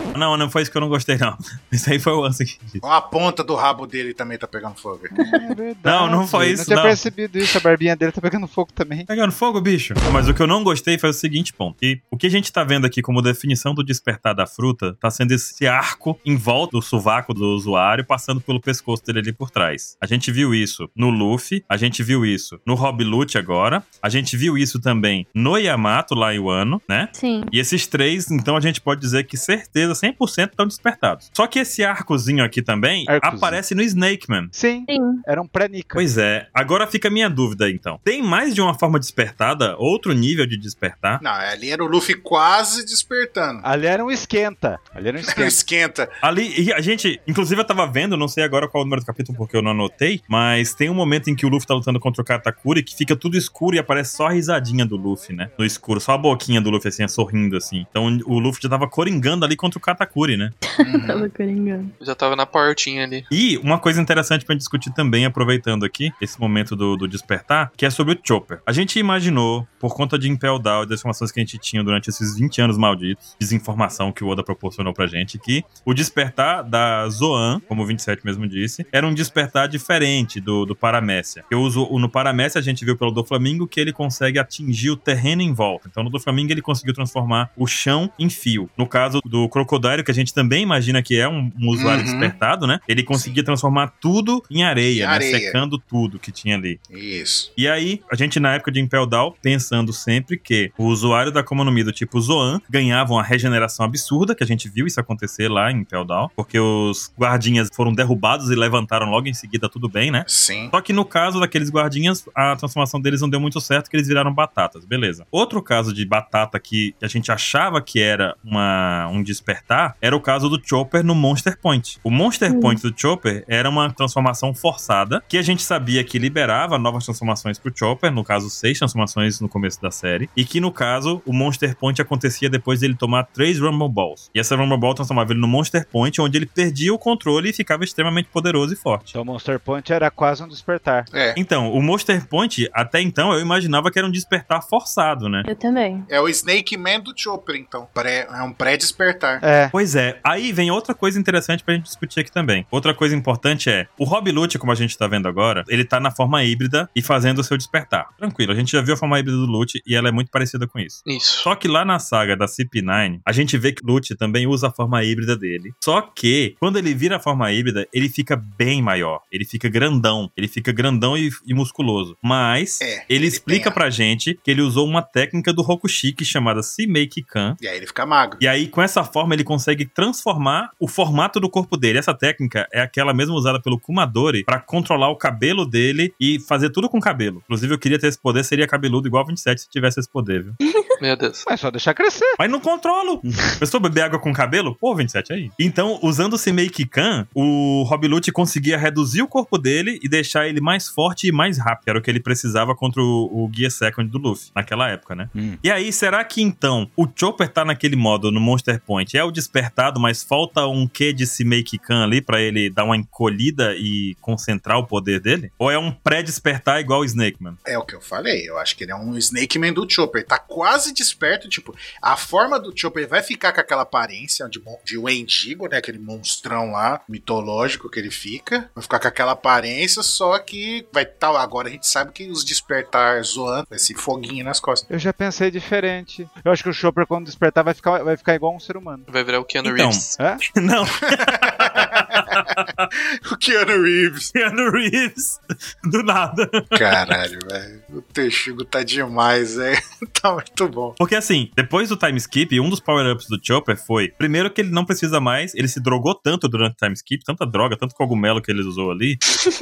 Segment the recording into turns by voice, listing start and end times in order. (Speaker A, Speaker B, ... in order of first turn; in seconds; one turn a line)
Speaker A: 0.1-2.8
Speaker B: 2.8-5.4
Speaker C: 5.1-9.1
Speaker A: 5.8-7.0
Speaker A: 9.1-34.5
Speaker D: 27.1-27.5
Speaker C: 33.1-33.6
Speaker C: 34.5-36.0
Speaker D: 34.9-35.2
Speaker A: 35.9-41.2
Speaker B: 41.2-43.6
Speaker C: 43.6-45.6
Speaker B: 45.2-46.1
Speaker A: 46.2-60.5
Speaker D: 60.6-61.9
Speaker B: 60.8-61.3
Speaker E: 62.0-63.3
Speaker A: 63.3-96.8
Speaker B: 91.7-92.3
Speaker B: 93.1-93.4
Speaker B: 94.9-95.6
Speaker B: 96.9-97.5
Speaker A: 97.6-139.1
Speaker B: 110.3-110.7
Speaker D: 122.5-122.8
Speaker C: 139.1-141.1
Speaker B: 141.1-141.4
Speaker A: 141.3-145.5
Speaker D: 145.4-146.1
Speaker B: 146.1-149.4
Speaker C: 149.4-149.7
Speaker A: 149.7-177.6
Speaker E: 161.1-161.5
Speaker B: 172.8-173.8
Speaker B: 177.6-178.4
Speaker A: 178.4-190.6
Speaker E: 191.0-191.4
Speaker C: 191.4-192.4
Speaker A: 192.4-217.6
Speaker C: 193.3-193.6
Speaker C: 205.3-205.6
Speaker B: 217.7-234.8
Speaker C: 234.9-239.1
Speaker E: 239.1-240.2
Speaker A: 239.6-242.8
Speaker B: 241.1-242.2
Speaker B: 243.2-244.3
Speaker A: 244.3-247.0
Speaker B: 246.7-251.0
Speaker A: 251.0-259.2